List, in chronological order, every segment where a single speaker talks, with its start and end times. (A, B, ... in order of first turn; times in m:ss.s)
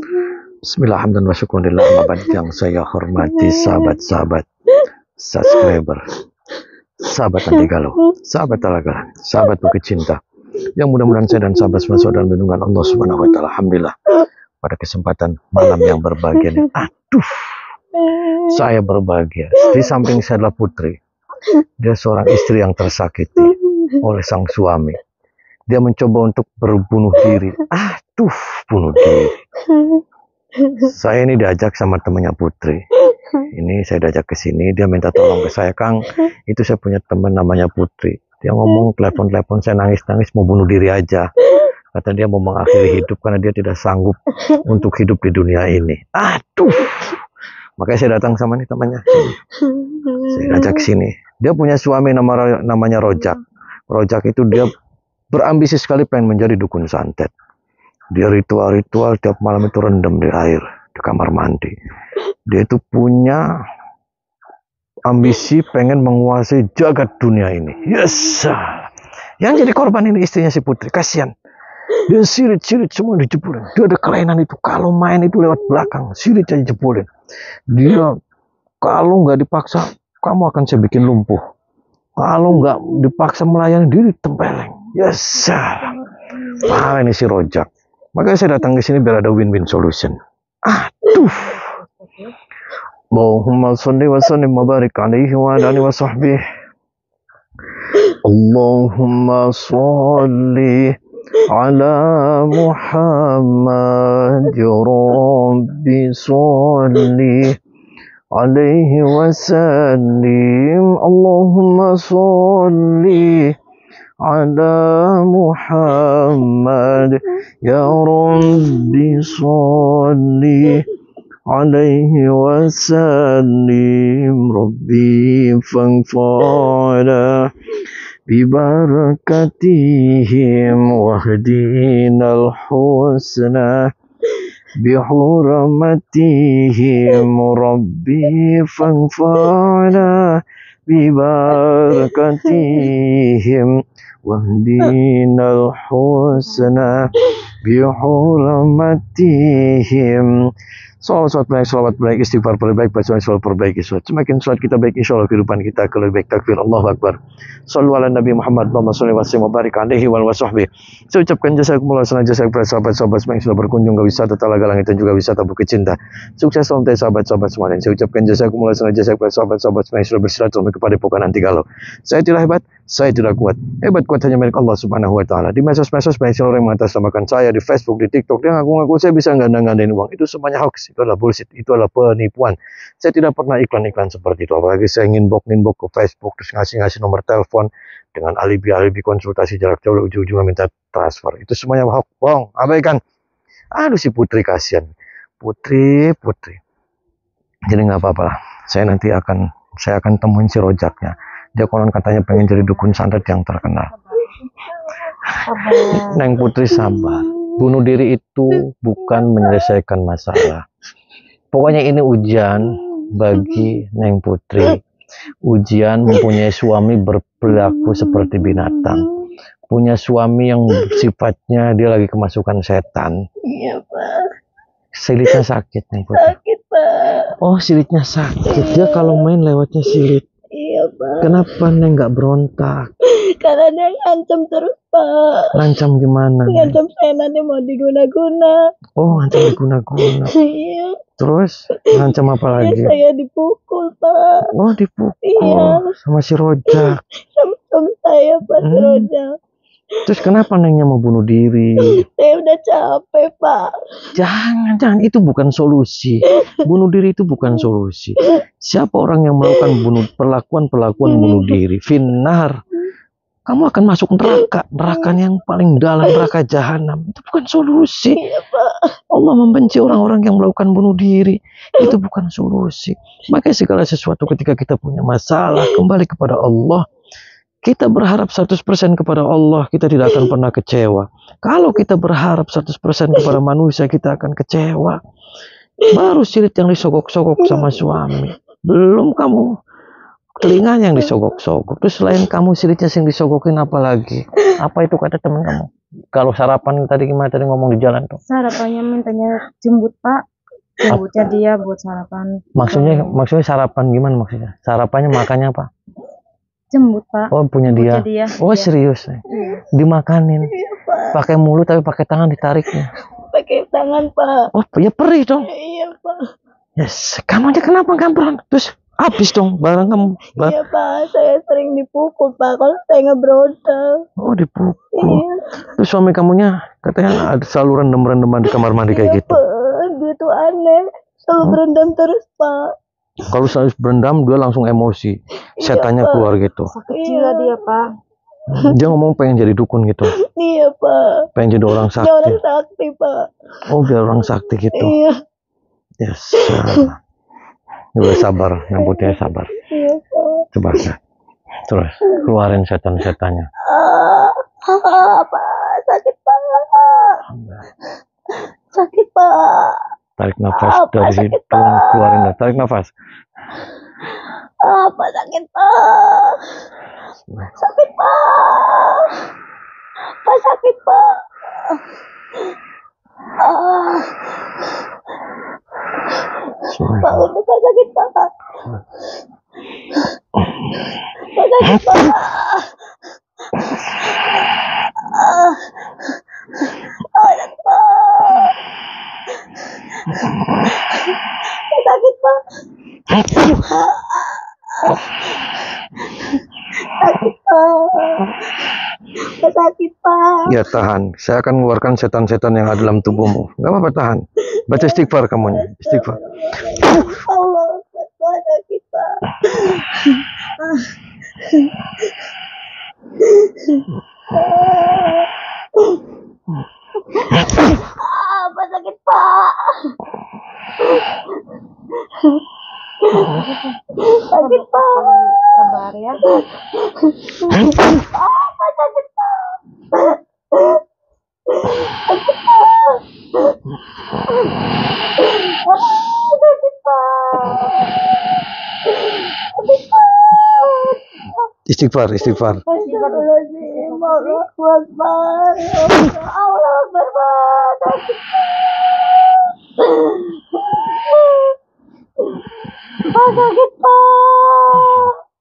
0:00.6-0:04.4 A
0:03.4-0:03.6 B
0:05.2-0:06.0 A
0:07.0-0:13.9 A
0:14.6-0:17.6 A
0:18.1-0:18.5 B
0:18.5-0:21.0 A
0:19.6-0:19.9 B
0:21.8-0:25.0 A
0:23.6-0:24.0 B
0:25.7-0:29.4 A
0:29.7-0:30.0 B
0:30.8-0:32.8 A
0:33.5-0:41.2 A
0:41.9-0:47.1 A
0:47.8-0:49.4 A
0:49.6-0:50.8 B
0:50.2-0:53.4 A
0:53.9-0:54.7 A
0:55.3-0:57.3 A
0:58.1-1:01.7 A
1:02.5-1:03.4 A
1:05.0-1:08.9 A
1:09.4-1:11.3 A
1:12.1-1:17.1 A
1:17.7-1:18.1 A
1:18.8-1:21.4 A
1:22.2-1:25.9 A
1:26.6-1:31.6 A
1:31.6-1:32.1 C
1:33.1-1:36.4 A
1:38.1-1:40.9 A
1:41.5-1:47.6 A
1:48.4-1:53.5 A
1:54.2-2:00.8 A
2:01.5-2:07.5 A
2:08.3-2:13.9 A
2:14.8-2:23.7 A
2:24.2-2:27.1 A
2:27.6-2:30.5 A
2:31.0-3:13.0 A
3:13.7-3:16.6 A
3:17.7-3:23.9 A
3:23.7-3:24.3 C
3:25.4-3:26.2 C
3:25.8-3:30.6 A
3:31.5-3:34.8 A
3:35.4-3:39.1 A
3:39.7-3:43.1 A
3:43.4-3:44.3 B
3:44.9-3:46.3 A
3:46.1-3:47.3 B
3:47.4-3:50.2 A
3:48.4-3:49.2 B
3:50.5-3:51.3 B
3:51.2-3:52.9 A
3:53.1-3:55.5 B
3:55.5-3:56.8 A
3:56.5-3:58.6 B
3:59.0-4:00.3 A
3:59.3-3:59.5 B
4:00.1-4:01.0 B
4:01.2-4:03.0 A
4:02.6-4:04.4 B
4:04.5-4:07.0 A
4:05.2-4:05.9 B
4:06.7-4:09.3 B
4:08.6-4:09.1 A
4:10.1-4:12.0 A
4:11.9-4:13.7 B
4:14.2-4:22.5 A
4:21.0-4:21.6 B
4:23.4-4:28.2 A
4:28.1-4:29.0 B
4:29.1-4:36.8 A
4:37.6-4:45.0 A
4:45.9-4:49.5 A
4:47.4-4:48.0 B
4:50.4-4:58.2 A
4:58.3-5:00.2 C
5:00.8-5:03.2 C
5:00.9-5:01.3 A
5:02.6-5:05.7 A
5:06.7-5:08.7 C
5:07.3-5:10.5 A
5:09.3-5:09.6 B
5:10.5-5:11.2 B
5:11.1-5:12.9 A
5:13.3-5:14.5 B
5:14.5-5:15.5 A
5:15.5-5:16.2 B
5:16.8-5:20.6 A
5:20.4-5:24.0 B
5:24.2-5:25.2 A
5:25.0-5:25.4 B
5:25.8-5:29.4 A
5:28.8-5:32.7 B
5:33.2-5:36.7 A
5:35.6-5:36.3 B
5:36.7-5:37.8 C
5:36.9-5:37.5 B
5:38.5-5:40.1 A
5:40.2-5:41.3 B
5:41.4-5:42.4 A
5:42.0-5:43.3 B
5:43.7-5:44.9 A
5:44.7-5:45.1 B
5:46.0-5:47.0 A
5:46.4-5:46.9 B
5:47.9-5:49.5 A
5:48.8-5:50.4 B
5:50.5-5:51.0 A
5:51.7-5:53.5 A
5:53.6-5:57.2 B
5:57.3-5:57.6 A
5:58.7-5:59.8 B
6:00.2-6:02.9 A
6:00.5-6:02.3 B
6:04.6-6:06.4 B
6:07.6-6:09.2 B
6:10.2-6:11.8 B
6:13.4-6:14.2 B
6:16.7-6:17.3 A
6:17.0-6:18.3 B
6:21.2-6:22.7 B
6:24.0-6:25.6 B
6:27.1-6:28.5 B
6:31.7-6:32.4 B
6:33.2-6:35.0 B
6:36.2-6:38.3 B
6:39.4-6:40.7 B
6:40.5-6:46.2 A
6:44.6-6:50.9 B
6:51.4-6:51.7 B
6:53.2-6:56.0 B
6:57.1-6:59.9 B
7:02.1-7:02.4 B
7:03.0-7:03.4 B
7:03.2-7:03.6 C
7:04.0-7:05.4 B
7:04.3-7:06.2 C
7:06.4-7:10.8 B
7:11.5-7:13.5 B
7:15.2-7:17.9 B
7:18.8-7:21.0 B
7:21.7-7:22.6 A
7:22.7-7:31.5 B
7:22.7-7:24.4 C
7:33.0-7:35.1 B